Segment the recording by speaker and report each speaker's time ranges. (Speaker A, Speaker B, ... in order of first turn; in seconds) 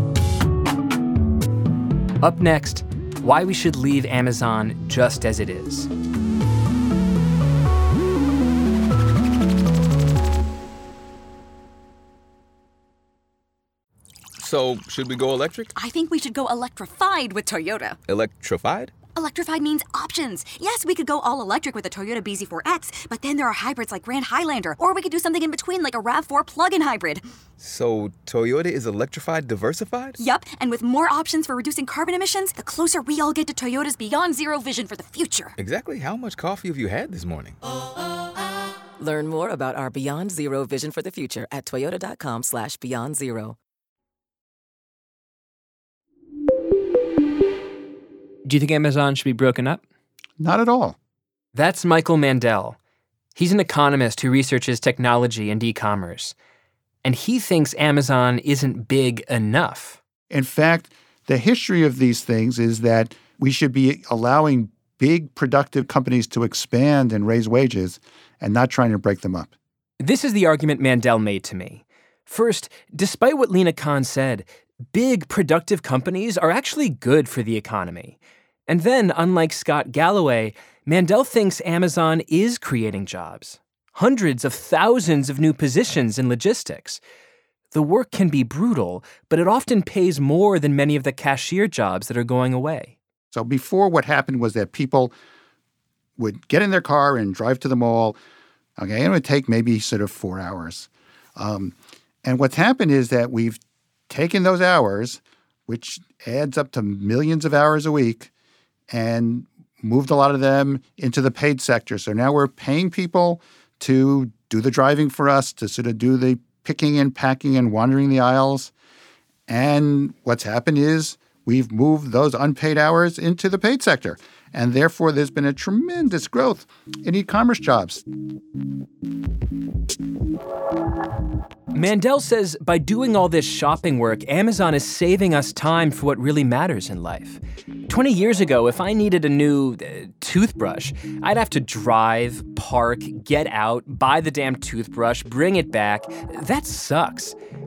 Speaker A: 2.2-5.9, 48.5-49.8, 51.5-52.8, 53.3-56.3, 57.0-60.0, 70.0-78.2, 78.7-87.0, 87.7-92.9, 131.7-147.3
Speaker B: 14.4-15.7, 18.1-19.0, 27.6-30.1, 35.6-37.6
Speaker C: 15.7-18.0, 19.1-27.2, 30.2-35.5
Speaker D: 39.0-43.6
Speaker E: 50.4-51.0, 60.3-69.5, 93.3-95.1, 96.2-98.2, 98.8-108.3, 108.9-118.7, 119.5-128.0